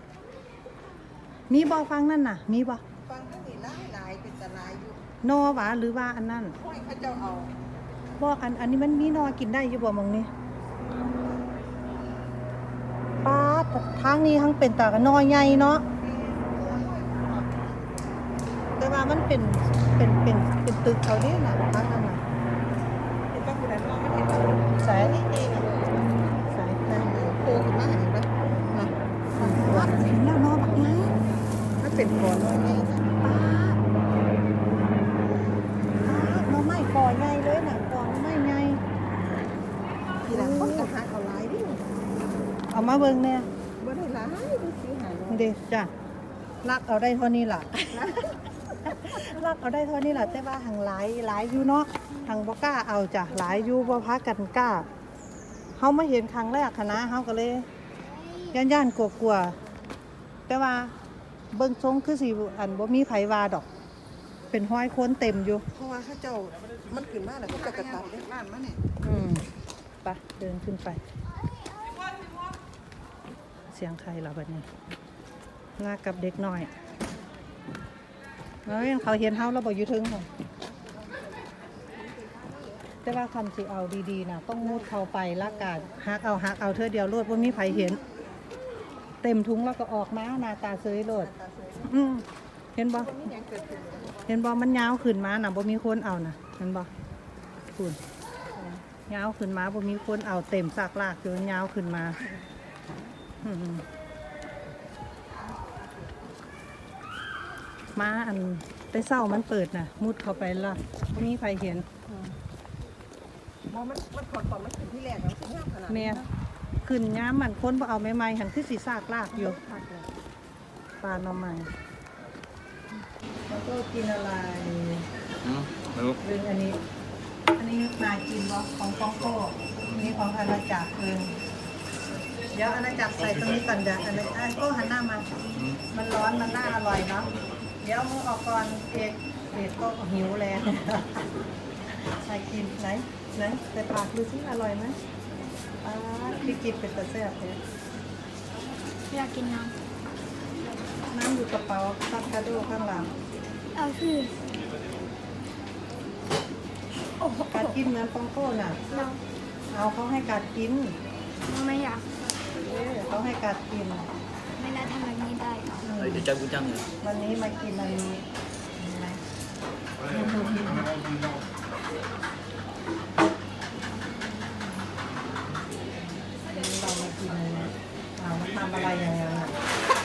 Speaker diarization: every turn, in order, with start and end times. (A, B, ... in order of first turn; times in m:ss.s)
0:01.5-0:02.8 A
0:03.1-0:04.9 B
0:05.2-0:06.6 A
0:06.6-0:07.5 B
0:08.2-0:10.3 A
0:13.2-0:15.8 A
0:16.3-0:17.6 B
0:18.8-0:22.2 A
0:23.3-0:24.5 B
0:24.7-0:25.6 A
0:26.3-0:27.4 A
0:27.4-0:28.9 B
0:29.4-0:31.1 A
0:31.8-0:33.1 B
0:33.2-0:33.8 A
0:36.0-0:38.8 A
0:40.2-0:40.9 A
0:40.3-0:41.8 B
0:42.7-0:43.5 A
0:43.8-0:45.2 B
0:45.3-0:45.9 A
0:46.6-0:48.3 A
0:48.8-0:54.8 A
0:55.8-0:57.7 A
0:58.5-0:59.6 A
1:00.5-1:00.9 A
1:01.5-1:03.6 A
1:04.5-1:05.7 A
1:05.8-1:08.8 B
1:09.0-1:09.4 A
1:10.0-1:11.0 A
1:13.7-1:14.6 A
1:15.8-1:16.7 A
1:18.6-1:20.3 A
1:22.2-1:22.5 B
1:23.0-1:28.0 A
1:29.2-1:33.3 A
1:33.3-1:34.1 B
1:34.2-1:36.9 A
1:39.1-1:42.2 A
1:43.4-1:43.8 A
1:47.9-1:51.9 A
1:53.7-1:55.8 B
1:55.9-1:56.2 A
1:56.8-1:59.6 A
1:59.6-2:00.1 B
2:01.0-2:01.7 A
2:03.5-2:05.0 A
2:05.4-2:06.2 C
2:06.2-2:06.8 A
2:07.6-2:11.3 A
2:12.5-2:15.3 A
2:15.5-2:15.8 C
2:15.9-2:17.3 A
2:17.8-2:21.2 A
2:21.9-2:25.0 A
2:25.8-2:27.6 A
2:29.1-2:29.7 D
2:31.1-2:33.1 A
2:33.7-2:34.3 D
2:37.4-2:38.8 A
2:38.9-2:39.2 D
2:39.7-2:40.9 A
2:41.4-2:42.0 D
2:42.6-2:44.0 A
2:44.6-2:45.8 D
2:45.8-2:46.2 A
2:46.0-2:46.8 C
2:47.0-2:48.2 A
2:48.8-2:49.2 A
2:50.1-2:50.9 A
2:56.5-2:59.5 A